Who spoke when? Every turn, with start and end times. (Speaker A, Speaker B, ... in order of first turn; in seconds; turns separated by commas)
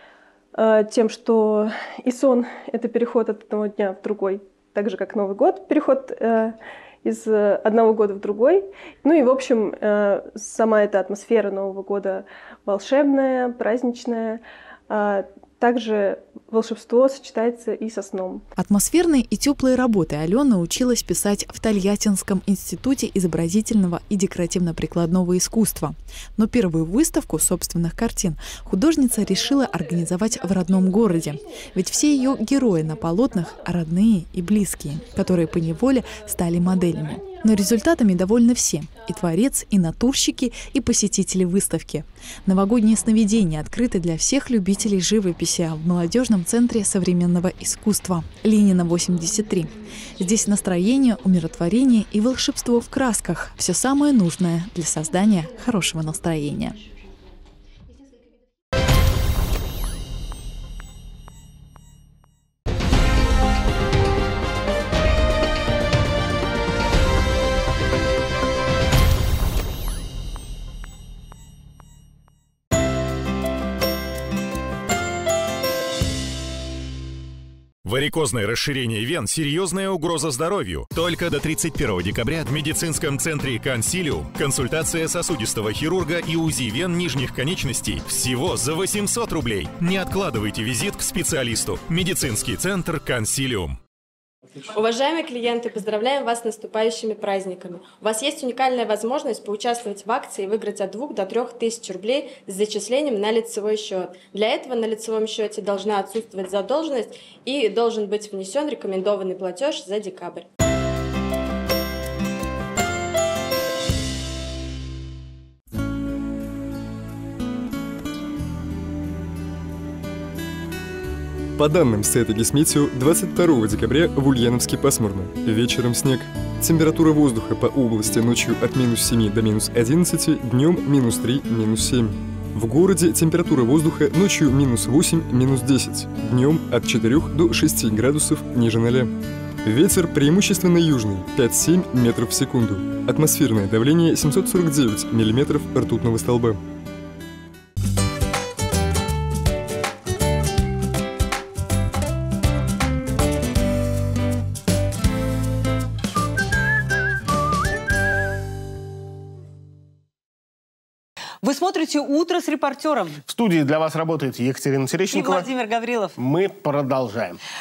Speaker A: 0.6-18.4, Speaker B: 18.6-56.8, Speaker C: 77.8-93.8, Speaker D: 94.7-110.4, Speaker E: 121.6-139.1, Speaker E: 139.6-146.6, Speaker F: 161.4-163.2, Speaker G: 163.3-165.5, Speaker F: 165.1-166.2, Speaker G: 166.2-167.4